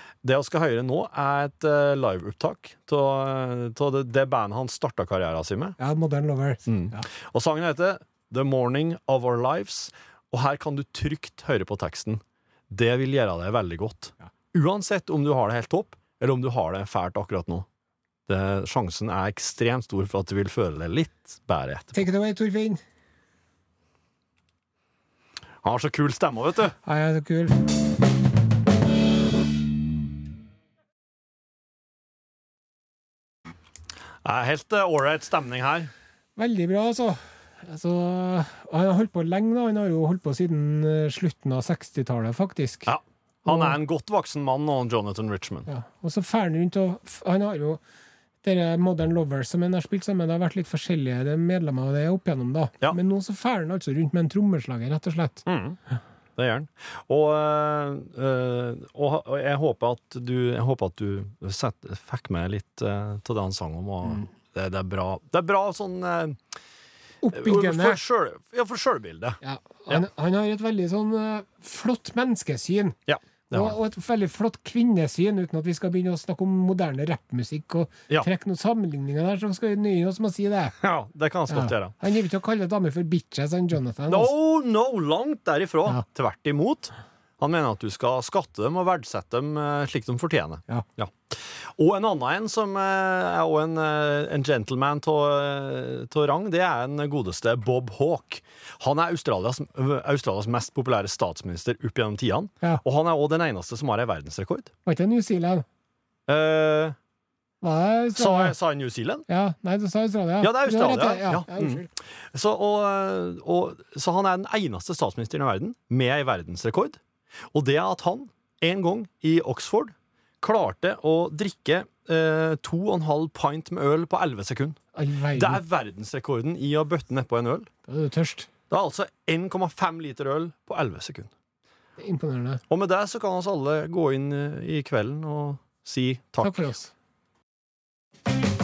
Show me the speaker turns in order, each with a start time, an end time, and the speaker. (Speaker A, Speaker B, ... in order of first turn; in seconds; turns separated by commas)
Speaker A: 0.2-5.8, Speaker B: 5.8-7.1, Speaker A: 6.7-17.7, Speaker A: 18.3-22.1, Speaker B: 21.9-22.8, Speaker A: 25.6-26.8, Speaker B: 26.9-27.6, Speaker A: 34.2-35.9, Speaker B: 36.4-42.9, Speaker A: 42.9-45.7, Speaker B: 43.5-43.8, Speaker B: 45.7-47.8, Speaker B: 48.4-55.5, Speaker A: 55.5-55.8, Speaker A: 56.4-66.4, Speaker B: 67.2-68.0, Speaker A: 67.3-70.0, Speaker B: 69.4-73.0, Speaker A: 73.1-73.8, Speaker B: 73.5-80.8, Speaker A: 80.8-82.0, Speaker B: 81.5-84.3, Speaker A: 84.1-104.7, Speaker B: 104.9-105.7, Speaker A: 106.3-107.0, Speaker B: 107.6-108.5, Speaker A: 108.2-109.3, Speaker B: 109.3-111.9, Speaker A: 110.4-117.0, Speaker A: 117.5-124.8, Speaker B: 125.0-125.6, Speaker A: 125.4-127.7, Speaker B: 127.9-128.5, Speaker A: 128.7-131.3, Speaker B: 132.0-132.6, Speaker A: 132.7-136.7, Speaker B: 136.4-136.9